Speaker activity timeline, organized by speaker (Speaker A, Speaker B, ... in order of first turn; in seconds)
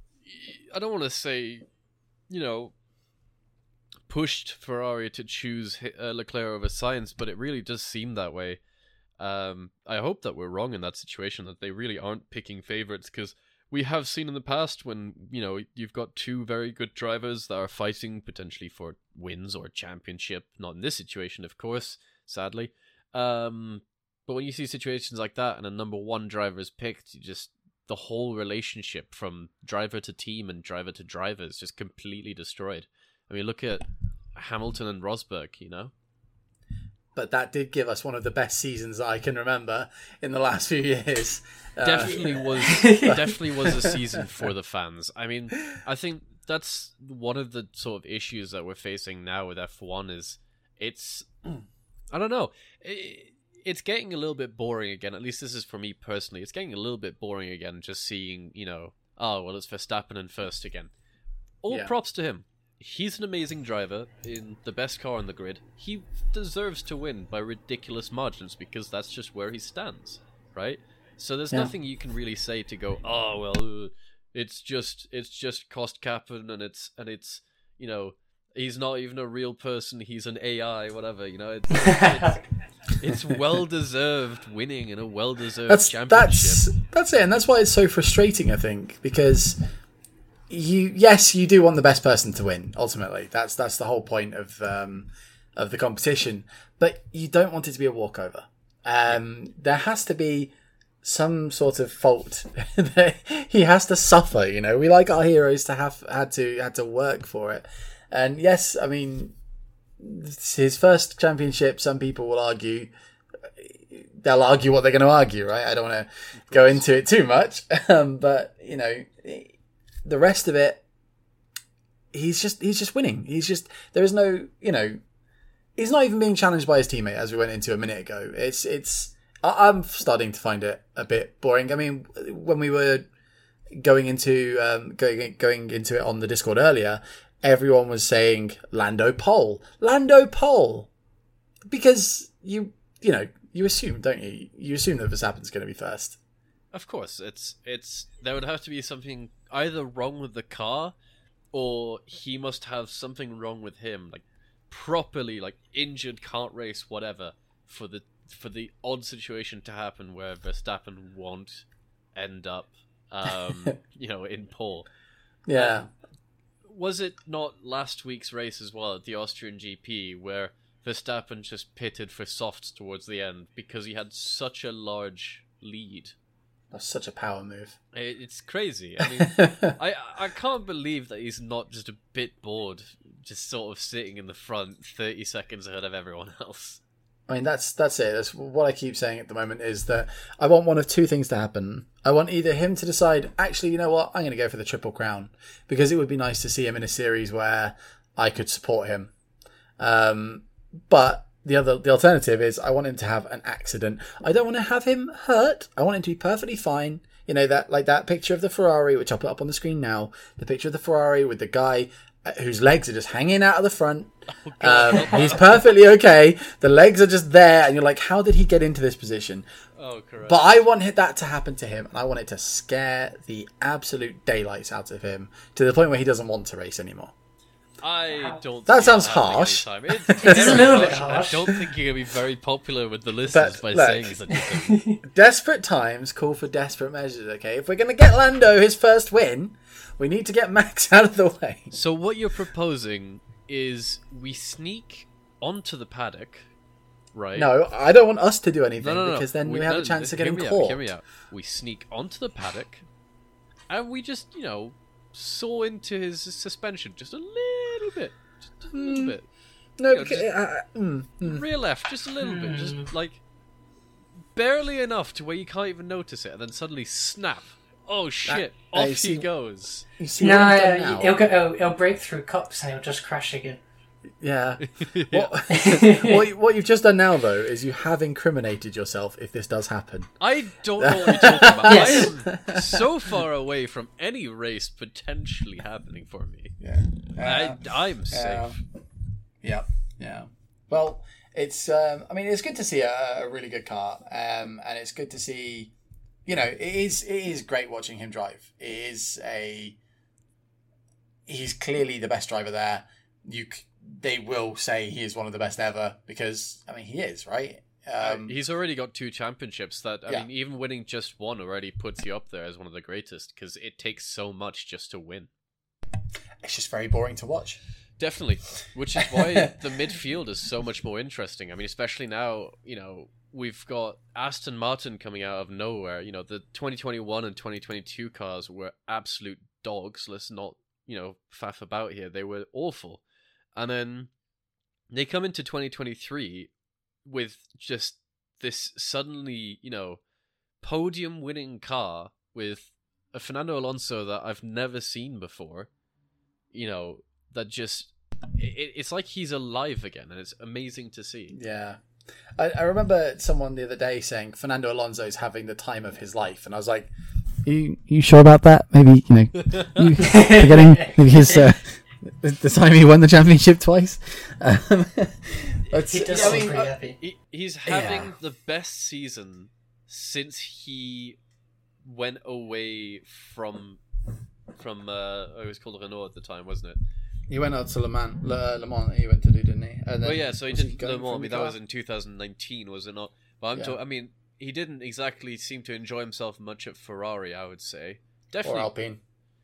Speaker A: 0.2-1.7, 2.3-2.7, 4.1-8.6, 9.2-35.9, 41.8-51.5, 52.1-60.9, 61.6-86.7, 116.3-116.9, 146.7-150.9, 151.5-164.9, 165.5-165.8, 166.6-176.1, 177.9-186.8, 214.4-215.6, 219.8-220.5, 227.8-234.8, 241.7-246.5, 247.1-247.5, 248.8-252.8, 253.7-259.3, 259.9-260.3, 261.2-263.2, 264.3-269.9, 274.7-275.3, 280.2-286.6, 287.2-288.6, 308.0-315.3, 318.0-333.0, 333.6-334.1, 334.9-336.5, 337.0-340.0, 340.6-345.7, 346.5-351.4, 359.5-359.9, 366.1-371.2, 371.8-373.8, 374.5-376.8, 380.0-388.7
Speaker B: 37.1-44.2, 85.7-89.6, 90.5-100.5, 101.0-109.3, 110.0-112.9, 113.6-119.5, 120.0-120.8, 122.1-125.0, 125.8-133.1, 133.7-140.9, 141.7-146.2, 165.5-165.9, 176.7-177.8, 179.0-179.8, 187.3-199.1, 199.8-219.4, 220.2-227.1, 228.7-230.9, 233.3-234.2, 235.0-241.8, 247.3-250.8, 258.7-259.1, 259.8-261.4, 268.2-269.3, 270.0-271.2, 274.2-280.1, 280.8-282.8, 286.6-288.6, 289.4-295.7, 296.2-299.8, 301.3-308.3, 316.4-317.6, 319.1-319.5, 351.3-351.8, 352.4-356.9, 357.4-366.7, 367.7-368.1, 377.3-381.6, 388.4-389.0
Speaker C: 42.6-43.3, 81.7-82.4, 230.2-231.5, 234.3-235.0, 262.2-262.9, 270.2-273.6, 275.5-276.3, 281.7-282.1, 360.0-361.4, 365.9-367.0